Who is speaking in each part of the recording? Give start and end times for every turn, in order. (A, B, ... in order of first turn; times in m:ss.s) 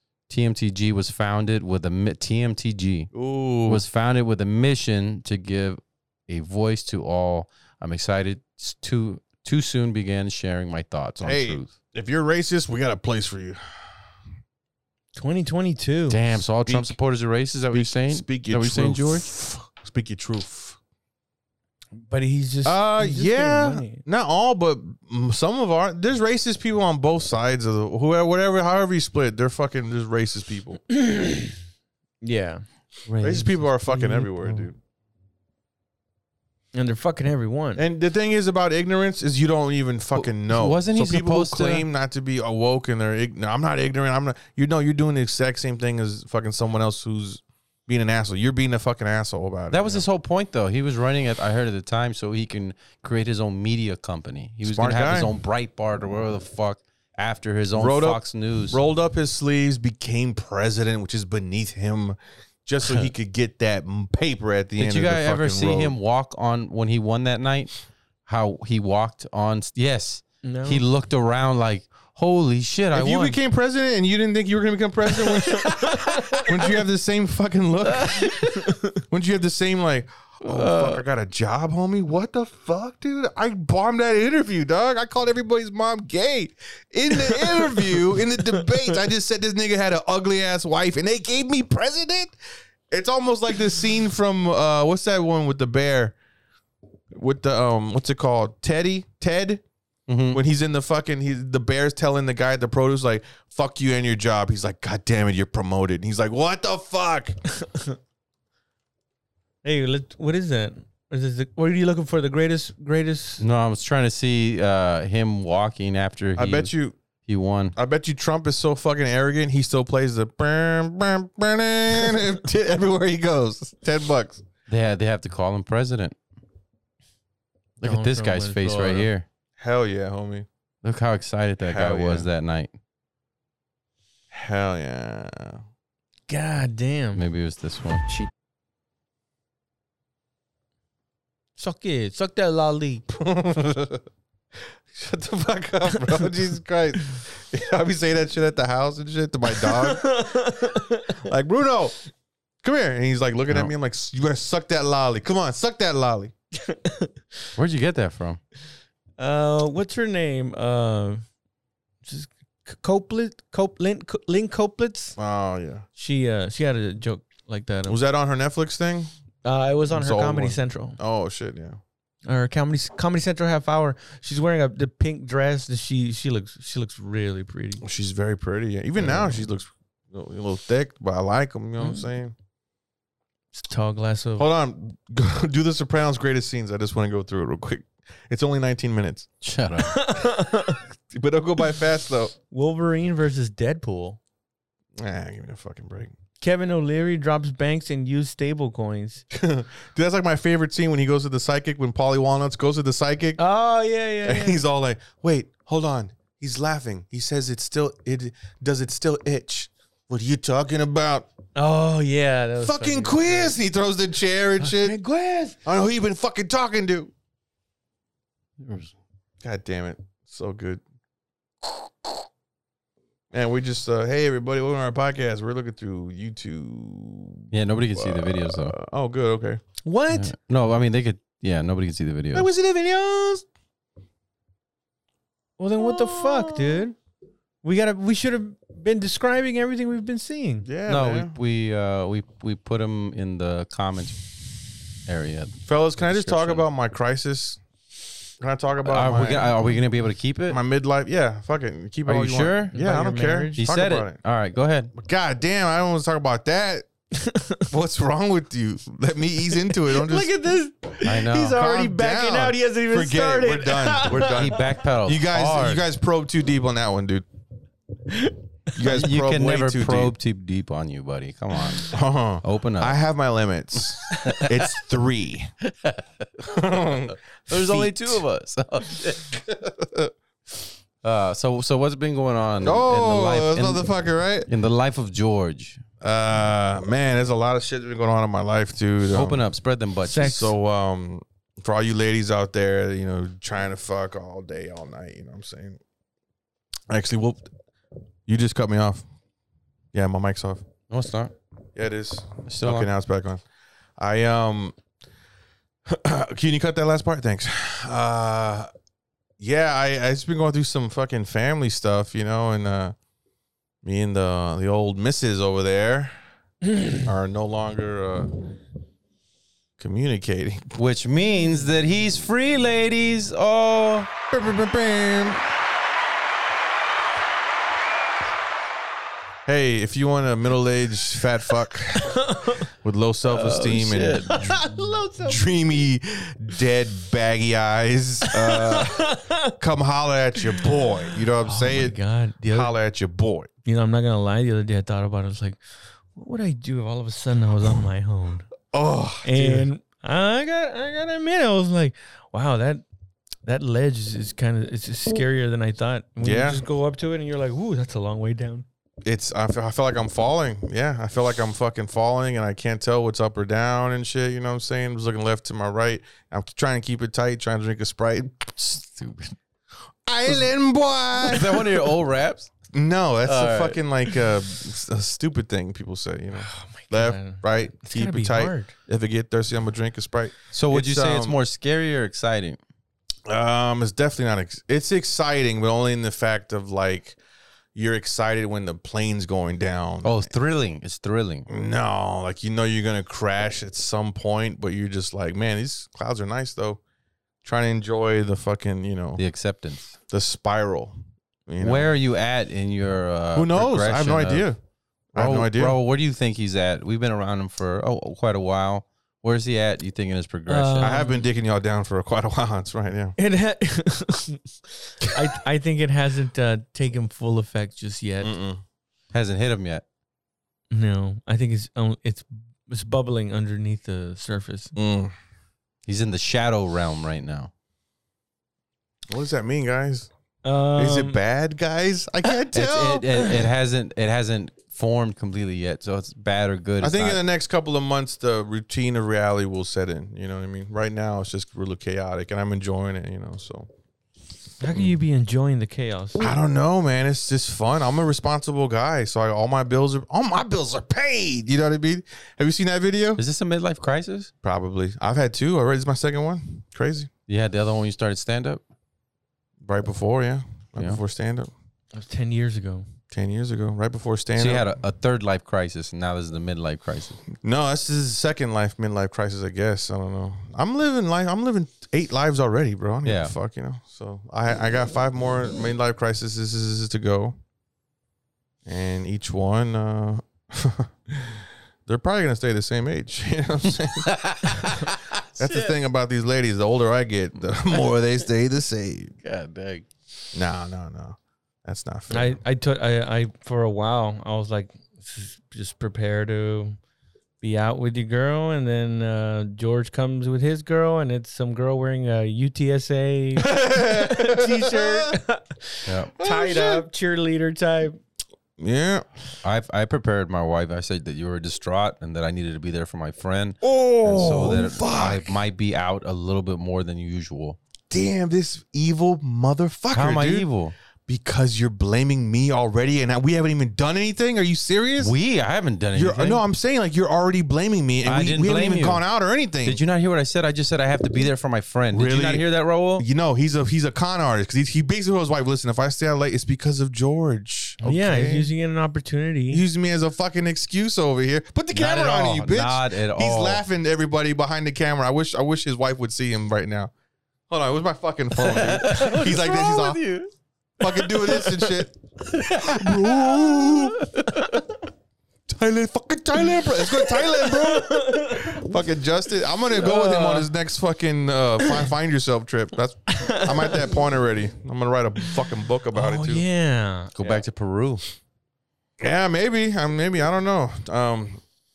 0:00.3-0:03.1 A
0:03.1-0:03.8 B
0:03.7-0:11.7 A
0:11.2-0:13.6 B
0:15.1-0:16.2 C
0:16.1-0:19.3 A
0:16.6-0:16.9 B
0:17.7-0:20.8 B
0:22.0-0:24.0 C
0:22.6-0:30.8 B
0:30.9-0:31.5 C
0:32.2-0:32.6 C
0:33.1-0:34.7 A
0:33.2-0:34.8 B
0:36.7-0:37.8 C
0:37.8-0:50.0 B
0:40.1-0:41.8 A
0:49.7-0:58.8 A
0:54.6-0:55.3 B
0:57.8-1:05.9 B
1:02.8-1:03.1 A
1:04.8-1:07.7 A
1:08.2-1:13.4 A
1:10.4-1:10.8 C
1:12.9-1:32.3 B
1:15.6-1:16.5 C
1:17.8-1:18.5 A
1:20.4-1:21.0 A
1:27.1-1:27.9 C
1:28.5-1:29.0 C
1:32.9-1:36.2 B
1:37.1-1:39.6 B
1:40.1-1:40.4 A
1:40.3-1:47.4 B
1:49.6-1:53.4 C
1:53.4-1:56.7 A
1:56.4-1:57.0 B
1:57.2-1:57.8 A
1:57.8-2:04.4 B
2:04.7-2:06.2 A
2:07.8-2:09.1 C
2:07.8-2:09.2 A
2:09.6-2:10.5 B
2:10.8-2:12.7 A
2:11.6-2:12.3 B
2:14.3-2:15.6 B
2:16.3-2:17.2 C
2:17.1-2:18.1 A
2:21.6-2:23.0 C
2:23.1-2:24.0 B
2:24.9-2:30.1 B
2:29.5-2:31.1 C
2:31.2-2:32.0 B
2:32.6-2:36.3 B
2:36.6-2:37.1 C
2:37.6-2:38.4 A
2:39.2-2:41.2 C
2:42.0-2:45.2 C
2:45.2-2:45.8 B
2:46.0-2:48.0 C
2:47.9-2:49.1 B
2:49.4-2:51.0 C
2:49.9-2:51.8 B
2:52.2-2:57.8 C
2:57.8-3:02.3 B
2:59.0-2:59.4 C
3:01.8-3:02.0 C
3:03.5-3:04.4 C
3:04.4-3:09.3 B
3:09.4-3:10.0 A
3:09.8-3:10.8 C
3:11.1-3:12.3 B
3:12.5-3:14.2 C
3:15.0-3:16.1 B
3:16.4-3:19.2 C
3:19.3-3:23.4 B
3:23.4-3:24.6 C
3:24.2-3:31.3 B
3:31.6-3:33.6 C
3:32.6-3:35.0 B
3:34.6-3:35.6 C
3:35.6-3:37.1 B
3:38.6-3:38.9 A
3:39.4-3:40.8 B
3:43.3-3:49.6 B
3:47.5-3:48.7 A
3:49.8-3:50.3 C
3:50.1-3:52.5 A
3:52.3-3:53.4 B
3:55.6-3:57.0 C
3:55.8-3:56.9 B
3:57.6-4:00.6 C
4:00.6-4:01.3 B
4:00.9-4:04.2 A
4:05.0-4:06.6 A
4:05.7-4:07.6 B
4:08.4-4:09.6 B
4:08.8-4:10.6 A
4:10.5-4:14.2 B
4:12.0-4:12.7 A
4:12.7-4:13.6 C
4:13.6-4:14.9 A
4:14.9-4:16.9 B
4:17.2-4:17.6 C
4:17.7-4:20.3 B
4:19.8-4:24.4 C
4:21.0-4:21.6 A
4:21.4-4:27.2 B
4:24.1-4:25.8 A
4:28.1-4:28.3 C
4:28.7-4:30.1 B
4:28.8-4:33.0 A
4:31.9-4:35.5 B
4:34.2-4:34.7 A
4:35.6-4:39.4 A
4:36.4-4:38.2 B
4:39.5-4:40.1 B
4:41.0-4:43.9 A
4:42.6-4:44.5 B
4:44.4-4:45.8 A
4:46.0-4:49.4 B
4:49.1-4:50.4 A
4:50.0-4:50.5 C
4:50.2-4:55.8 B
4:56.9-4:57.5 B
4:58.3-4:59.0 B
4:59.9-5:00.6 B
5:00.9-5:01.3 A
5:01.8-5:03.4 B
5:02.5-5:02.9 A
5:04.0-5:04.7 B
5:05.9-5:08.7 B
5:09.4-5:12.9 B
5:13.8-5:16.1 B
5:17.0-5:18.5 B
5:19.8-5:20.7 B
5:20.7-5:24.1 A
5:24.3-5:25.4 B
5:29.4-5:34.5 B
5:32.2-5:32.6 C
5:33.2-5:34.5 A
5:34.3-5:35.4 C
5:35.2-5:42.0 B
5:38.3-5:39.5 C
5:41.4-5:42.7 C
5:42.5-5:43.5 B
5:43.6-5:45.6 C
5:46.1-5:48.5 C
5:48.7-5:49.7 B
5:49.2-5:52.8 C
5:53.4-5:58.6 C
5:56.2-5:56.6 B
5:59.0-6:08.5 B
6:08.6-6:09.3 A
6:10.1-6:11.8 B
6:11.2-6:12.5 A
6:12.7-6:21.4 B
6:13.2-6:13.8 A
6:16.4-6:18.7 C
6:20.5-6:22.6 A
6:23.2-6:27.2 B
6:27.7-6:30.3 B
6:30.0-6:31.5 A
6:31.5-6:36.8 B
6:37.4-6:39.2 B
6:39.2-6:39.9 A
6:40.1-6:41.0 B
6:41.5-6:41.9 B
6:41.6-6:44.5 A
6:43.3-6:44.6 B
6:45.1-6:45.8 B
6:45.2-6:51.0 A
6:50.5-6:51.2 C
6:50.8-6:53.2 B
6:53.2-6:54.4 C
6:55.0-6:58.3 C
6:58.2-6:58.6 B
6:59.1-6:59.8 A
7:00.7-7:04.7 C
7:04.7-7:05.1 B
7:05.8-7:07.5 A
7:09.1-7:10.1 B
7:10.4-7:11.2 C
7:10.8-7:13.3 B
7:12.5-7:17.2 A
7:16.8-7:23.7 B
7:24.6-7:26.3 C
7:26.2-7:33.2 B
7:33.2-7:34.3 A
7:34.4-7:37.1 B
7:37.3-7:38.6 A
7:39.6-7:41.5 B
7:41.9-7:42.9 C
7:43.1-7:44.7 B
7:44.4-7:47.2 A
7:47.4-7:57.4 B
7:53.0-7:53.3 A
7:58.6-8:04.8 B
8:04.0-8:05.8 A
8:05.4-8:09.1 B
8:09.2-8:09.9 A
8:10.3-8:12.4 B
8:12.1-8:16.8 C
8:17.4-8:28.0 C
8:23.4-8:25.1 B
8:25.8-8:26.1 A
8:26.2-8:26.8 B
8:28.6-8:29.0 B
8:29.4-8:37.6 A
8:33.6-8:35.4 B
8:37.9-8:40.5 B
8:39.9-8:40.7 A
8:41.1-8:45.1 B
8:45.0-8:46.4 A
8:45.9-8:49.8 B
8:48.0-8:49.0 A
8:49.6-8:53.0 A
8:51.9-8:58.5 B
8:57.8-8:59.6 C
8:59.5-9:06.9 B
9:01.7-9:03.6 A
9:07.5-9:10.0 B
9:08.4-9:10.3 A
9:10.8-9:14.0 B
9:10.8-9:11.7 A
9:12.2-9:14.5 A
9:15.5-9:26.4 B
9:17.1-9:18.7 C
9:19.8-9:20.4 C
9:23.1-9:23.9 C
9:25.9-9:27.1 C
9:27.2-9:28.0 A
9:29.0-9:31.4 B